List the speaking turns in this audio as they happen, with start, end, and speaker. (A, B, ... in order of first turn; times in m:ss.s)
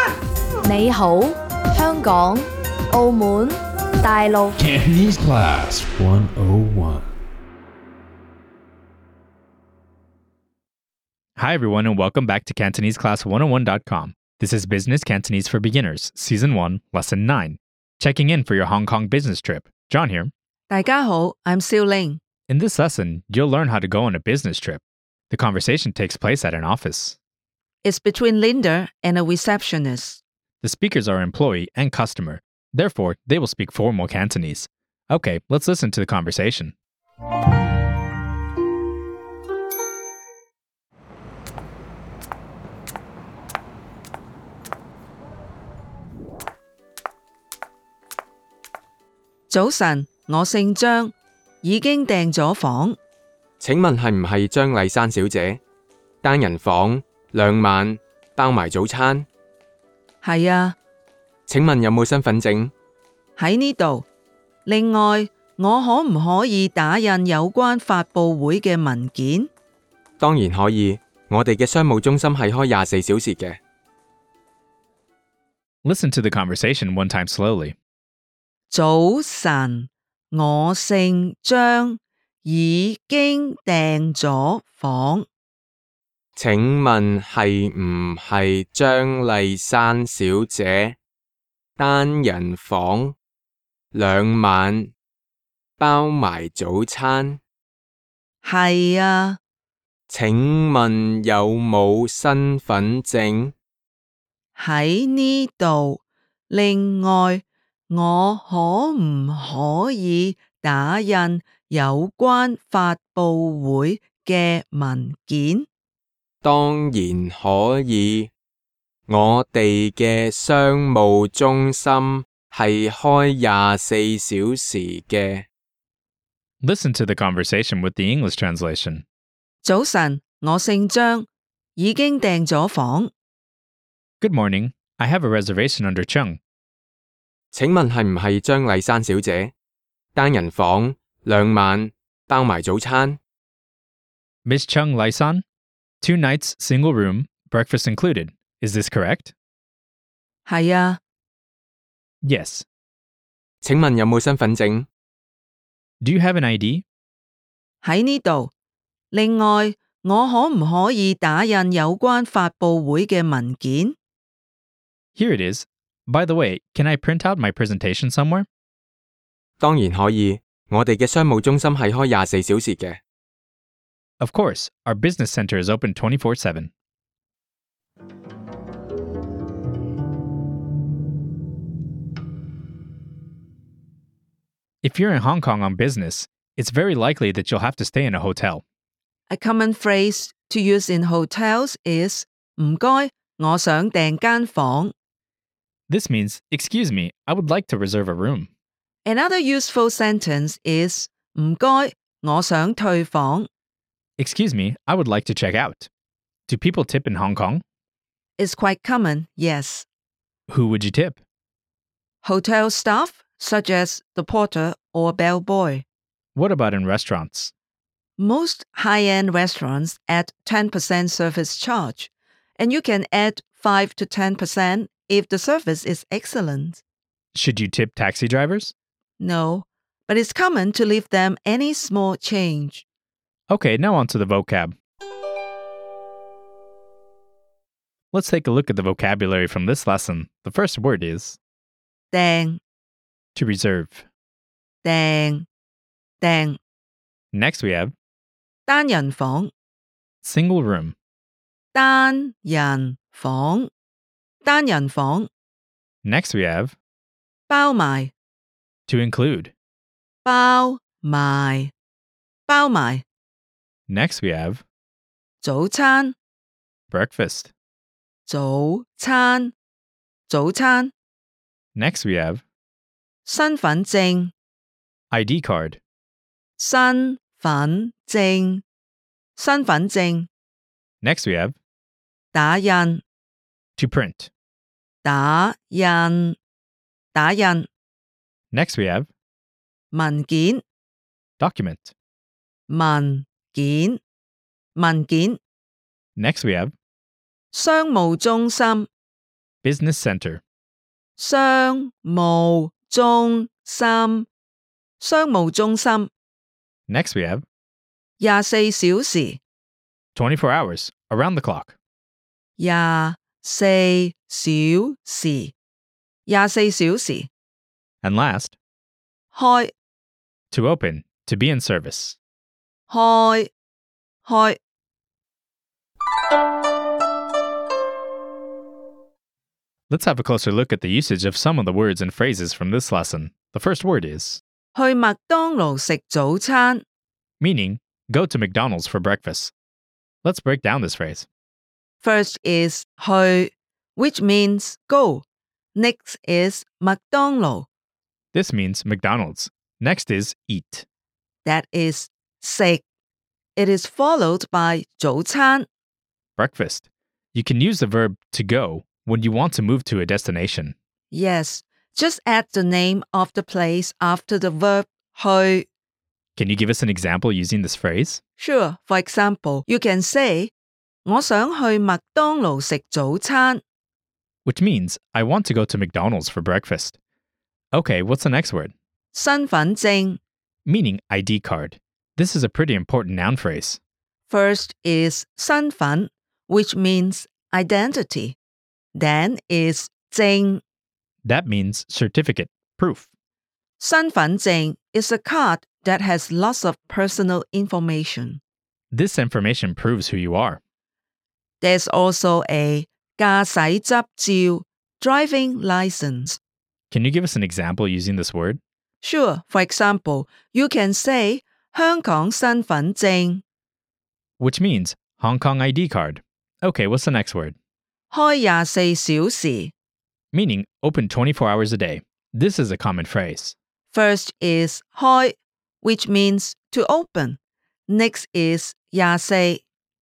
0:00.6-0:04.6 A
0:04.6-0:07.1 B
0:11.4-0:20.3 C
0:20.7-0:22.2 D
0:22.5-0:27.2 C
0:27.8-0:30.2 D
0:30.6-0:36.7 C
0:49.5-0:53.0 D
0:53.6-0:55.6 E
0:56.2-0:59.3 E
1:00.2-1:00.8 D
1:01.5-1:02.7 E
1:03.4-1:04.1 D
1:04.6-1:09.5 D
1:10.2-1:13.6 E
1:15.8-1:17.8 C
1:18.7-1:25.3 D
1:26.4-1:31.0 E
1:31.8-1:33.2 E
1:33.9-1:34.9 E
1:35.8-1:37.4 E
1:38.4-1:39.4 D
1:40.1-1:43.5 E
1:44.6-1:55.7 D
1:56.4-1:58.3 E
1:59.1-2:05.5 E
2:06.6-2:09.0 C
2:09.6-2:13.1 D
2:14.2-2:16.4 C
2:17.5-2:19.5 E
2:20.2-2:23.2 E
2:24.4-2:25.4 C
2:26.0-2:29.3 C
2:30.4-2:31.0 D
2:32.2-2:32.6 C
2:33.6-2:34.9 E
2:36.0-2:36.8 C
2:37.8-2:38.5 D
2:39.1-2:44.0 D
2:45.2-2:48.5 C
2:49.6-2:53.0 E
2:54.2-2:56.7 C
3:04.8-3:08.6 C
3:09.3-3:14.9 D
3:15.9-3:18.5 C
3:19.0-3:23.5 D
3:24.2-3:25.9 C
3:26.5-3:27.6 C
3:28.4-3:29.9 D
3:30.5-3:31.2 C
3:32.2-3:35.8 D
3:36.4-3:37.5 C
3:38.2-3:46.8 D
3:47.3-3:48.7 C
3:49.2-3:52.9 D
3:53.5-3:54.8 C
3:58.1-4:01.4 C
4:02.1-4:02.6 D
4:03.4-4:04.1 C
4:04.8-4:05.5 D
4:06.2-4:06.6 D
4:07.3-4:07.9 C
4:08.7-4:09.5 D
4:10.2-4:11.0 C
4:11.7-4:13.7 D
4:14.4-4:15.3 D
4:16.0-4:16.8 C
4:17.5-4:18.1 D
4:18.9-4:19.5 C
4:20.2-4:21.7 D
4:22.5-4:23.0 D
4:23.9-4:24.6 C
4:25.4-4:26.2 D
4:26.9-4:27.5 C
4:28.3-4:29.5 D
4:30.3-4:30.9 D
4:31.8-4:32.4 C
4:33.2-4:34.3 D
4:35.1-4:35.8 C
4:36.6-4:38.6 D
4:39.4-4:40.3 D
4:41.0-4:41.6 C
4:42.3-4:43.0 D
4:43.8-4:44.3 C
4:45.0-4:46.4 D
4:47.1-4:47.7 D
4:48.5-4:49.1 C
4:49.9-4:50.6 D
4:51.4-4:51.9 C
4:52.7-4:54.0 D
4:54.8-4:55.4 D
4:56.2-4:56.7 C
4:57.5-4:58.9 D
4:59.6-5:00.4 C
5:01.2-5:04.3 D
5:05.0-5:06.1 D
5:06.9-5:07.4 C
5:08.2-5:09.4 D
5:10.2-5:11.8 C
5:12.6-5:15.5 D
5:16.3-5:17.3 D
5:18.0-5:18.6 C
5:19.3-5:19.7 D
5:20.5-5:22.2 C
5:22.9-5:23.5 D
5:24.2-5:24.6 D
5:29.9-5:34.4 C
5:34.7-5:36.8 D
5:37.4-5:39.5 C
5:40.2-5:41.3 C
5:42.0-5:47.7 D
5:48.3-5:50.9 C
5:51.4-5:52.8 D
5:53.6-5:55.7 D
5:56.4-6:00.7 C
6:01.1-6:05.7 D
6:06.4-6:08.2 C
6:08.4-6:10.5 D
6:11.0-6:13.6 D
6:14.5-6:17.0 C
6:17.7-6:18.7 C
6:19.1-6:20.2 D
6:20.7-6:23.8 C
6:24.3-6:28.4 D
6:29.0-6:30.6 D
6:31.2-6:33.1 C
6:33.8-6:38.4 D
6:38.9-6:40.6 C
6:41.6-6:46.4 D
6:46.9-6:48.6 C
6:49.0-6:53.4 D
6:54.4-6:57.6 C
6:58.1-6:59.7 D
7:00.3-7:03.6 C
7:03.9-7:09.6 D